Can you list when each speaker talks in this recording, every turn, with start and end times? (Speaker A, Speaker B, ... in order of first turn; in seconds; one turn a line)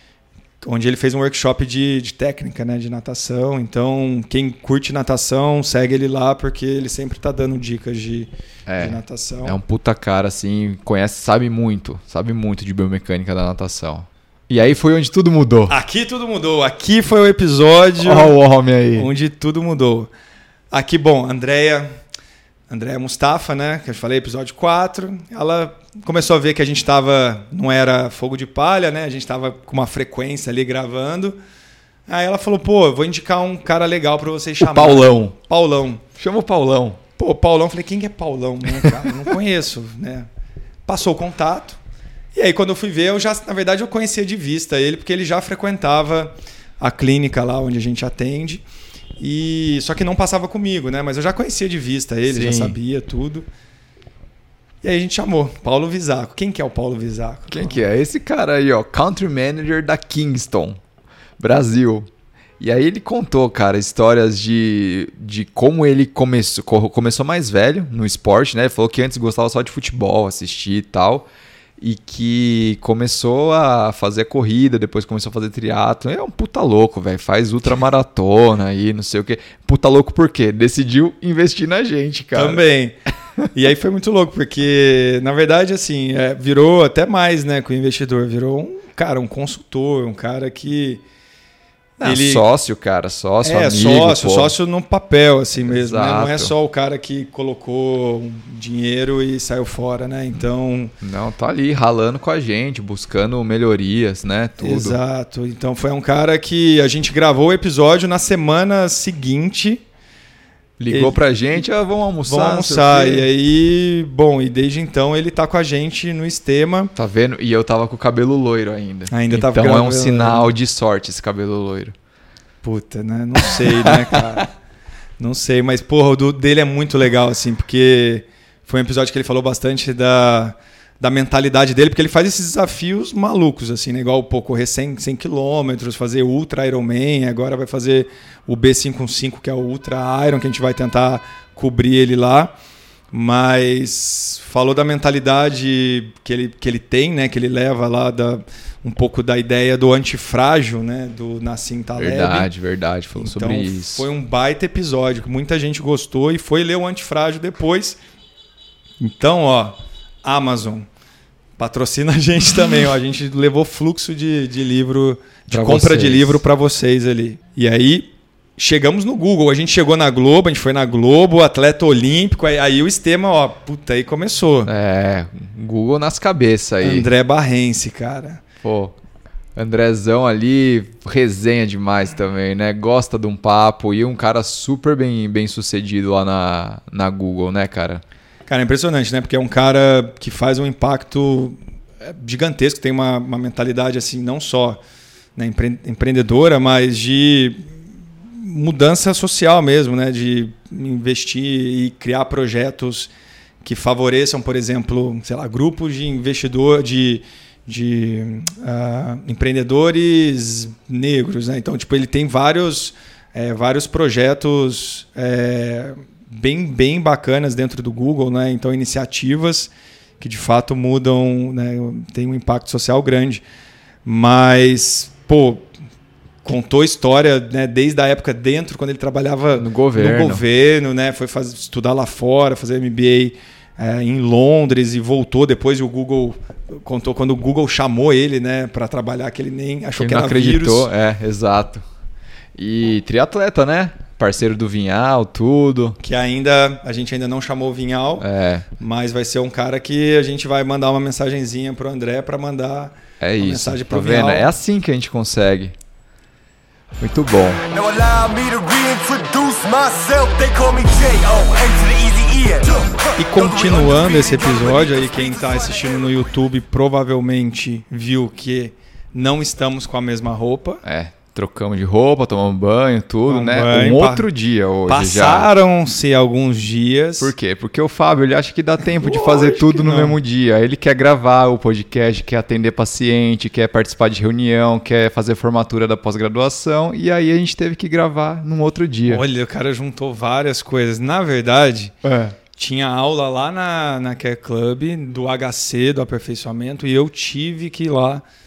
Speaker A: 0.6-9.6
Speaker B: 8.7-15.8
Speaker A: 15.7-18.4
Speaker B: 18.0-19.1
Speaker A: 18.9-20.1
Speaker A: 20.7-21.9
Speaker A: 22.7-31.4
Speaker A: 32.1-36.0
Speaker B: 34.6-35.3
Speaker B: 36.1-37.0
Speaker A: 37.2-40.3
Speaker A: 40.9-41.8
Speaker A: 42.3-48.6
Speaker A: 49.2-53.5
Speaker B: 52.3-52.8
Speaker A: 54.8-57.8
Speaker B: 57.5-60.8
Speaker B: 61.4-62.1
Speaker B: 62.6-71.3
Speaker B: 71.8-82.6
Speaker A: 82.3-83.0
Speaker A: 83.5-91.0
Speaker A: 92.0-92.5
Speaker B: 92.0-94.5
Speaker A: 93.4-100.9
Speaker B: 95.6-96.5
Speaker B: 101.0-105.0
Speaker A: 104.6-109.8
Speaker B: 110.8-113.3
Speaker A: 110.9-111.2
Speaker A: 112.2-116.9
Speaker B: 117.0-121.9
Speaker A: 119.1-120.5
Speaker A: 122.6-124.5
Speaker B: 123.5-124.4
Speaker A: 125.2-142.5
Speaker A: 143.1-152.5
Speaker B: 152.0-154.1
Speaker A: 153.1-158.0
Speaker A: 159.0-160.9
Speaker A: 161.6-174.7
Speaker B: 165.5-166.4
Speaker B: 174.6-177.1
Speaker A: 176.8-178.4
Speaker B: 178.6-178.9
Speaker B: 179.6-188.0
Speaker A: 188.5-194.8
Speaker A: 195.3-197.7
Speaker A: 198.3-223.4
Speaker A: 224.0-225.7
Speaker A: 226.4-240.9
Speaker B: 229.5-230.4
Speaker B: 240.0-241.8
Speaker B: 242.6-246.0
Speaker A: 246.0-254.5
Speaker B: 248.2-248.7
Speaker B: 253.2-255.7
Speaker B: 257.0-257.6
Speaker C: 257.7-265.9
Speaker A: 263.2-270.8
Speaker B: 270.8-275.5
Speaker A: 273.3-274.3
Speaker A: 274.9-277.3
Speaker B: 277.2-289.2
Speaker A: 278.8-280.2
Speaker A: 289.1-291.9
Speaker B: 292.0-292.4
Speaker A: 292.5-298.2